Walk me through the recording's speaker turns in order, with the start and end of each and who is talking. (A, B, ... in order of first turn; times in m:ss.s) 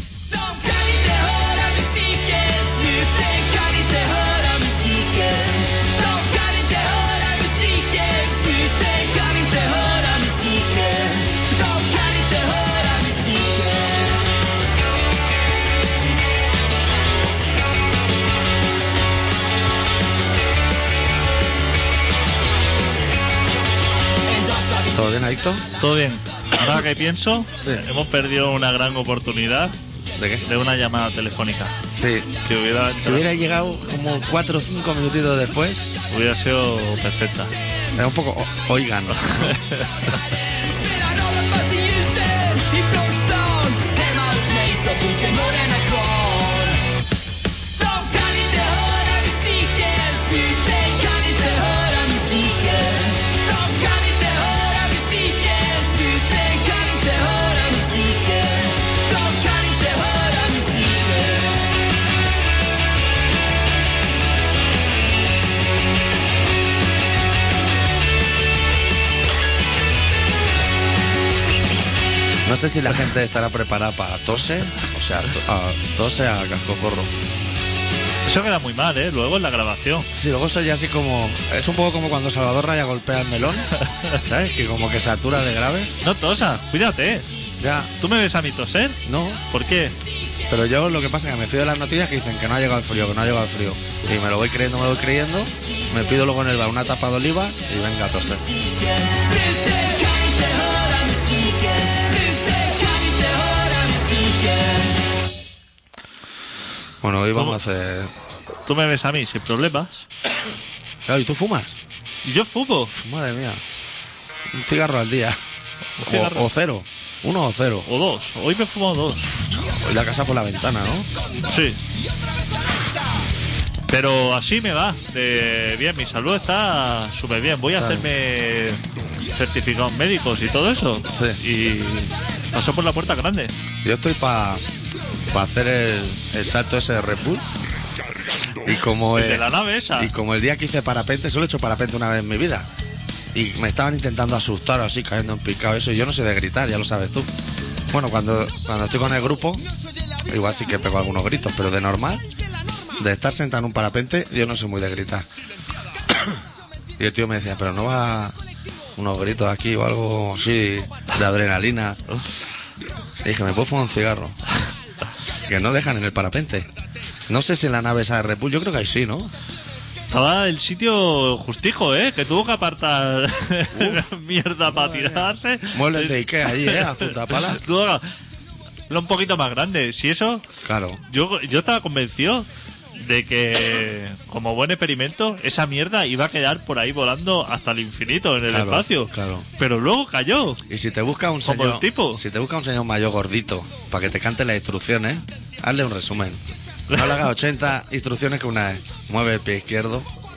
0:00.3-0:14.2 A
0:24.2-0:24.9 A
0:24.9-0:25.6 B
0:25.8-0:29.8 C
0:30.1-0:30.4 B
0:30.4-0:31.8 C
0:31.9-0:32.3 B
0:32.4-0:33.2 C
0:32.9-0:35.9 B
0:36.1-0:37.5 C
0:37.9-0:39.6 B
0:39.4-0:39.9 C
0:40.5-0:46.8 A
0:47.7-1:01.7 A
1:12.4-1:17.1 B
1:18.2-1:20.1 C
1:20.1-1:23.7 B
1:23.9-1:24.2 C
1:24.2-1:25.9 B
1:26.0-1:27.3 C
1:27.6-1:27.9 B
1:28.0-1:29.9 C
1:29.0-1:29.4 B
1:30.5-1:38.5 B
1:38.6-1:45.0 A
1:47.0-1:48.1 B
1:48.6-1:50.1 C
1:51.1-1:51.8 B
1:52.2-1:52.9 C
1:52.9-1:53.6 B
1:54.5-1:55.4 B
1:56.0-1:56.5 C
1:56.0-1:57.9 B
1:57.8-1:59.3 C
1:59.4-2:01.1 B
2:01.5-2:01.8 C
2:03.9-2:13.5 C
2:07.8-2:08.1 B
2:11.1-2:11.4 B
2:13.8-2:14.6 B
2:15.3-2:17.4 B
2:18.5-2:22.7 B
2:19.2-2:20.1 C
2:23.3-2:27.3 B
2:27.9-2:29.6 B
2:30.2-2:32.2 B
2:33.0-2:35.3 B
2:36.1-2:36.4 B
2:37.0-2:38.4 B
2:39.0-2:42.0 B
2:43.2-2:44.4 B
2:45.4-2:46.7 B
2:47.3-2:49.3 B
2:50.1-2:58.0 C
2:53.7-2:54.0 B
2:54.7-2:57.6 B
2:58.9-3:00.4 C
3:00.6-3:01.0 B
3:01.0-3:10.6 C
3:08.5-3:09.4 B
3:10.7-3:20.1 B
3:11.4-3:12.2 C